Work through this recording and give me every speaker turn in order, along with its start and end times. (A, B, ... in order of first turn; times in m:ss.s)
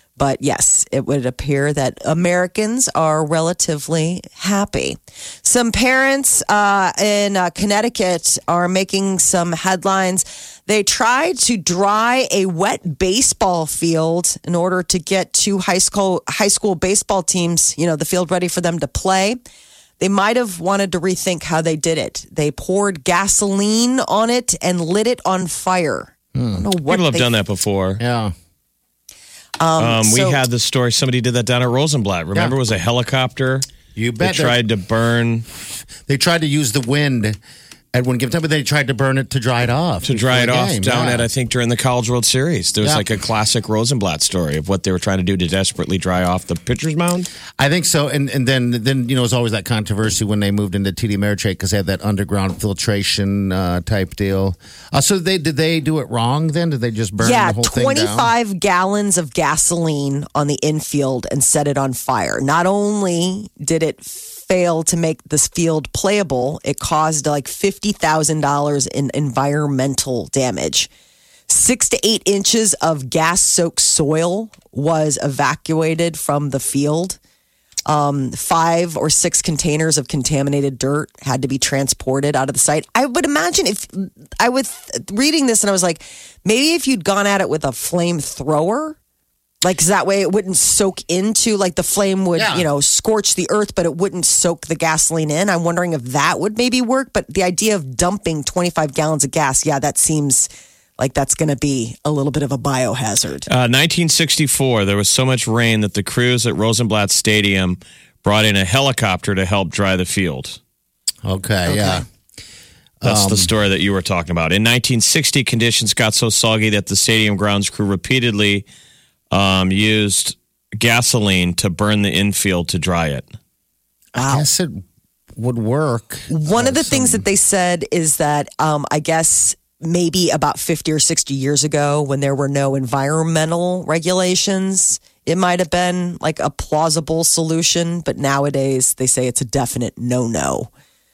0:00.2-0:19.4 A
0:20.0-0:27.3 A
0:26.3-0:26.6 B
0:26.9-0:28.0 C
0:28.0-0:28.3 B
0:29.6-0:30.4 A
0:29.8-0:33.6 C
0:33.9-0:34.6 B
0:34.2-0:35.4 C
0:36.0-0:37.4 B
0:37.9-0:41.3 B
0:40.1-0:47.3 C
0:47.6-0:58.3 B
0:57.2-1:10.9 A
1:11.5-1:17.2 A
1:17.8-1:29.0 A
1:29.6-1:43.5 A
1:32.4-1:32.6 B
1:43.5-1:50.6 C
1:51.2-1:52.0 B
1:51.7-1:52.0 A
1:53.0-1:53.5 B
1:53.0-1:58.6 C
1:59.3-2:03.2 C
2:04.2-2:04.4 A
2:04.2-2:04.8 B
2:05.4-2:07.2 B
2:06.3-2:20.7 A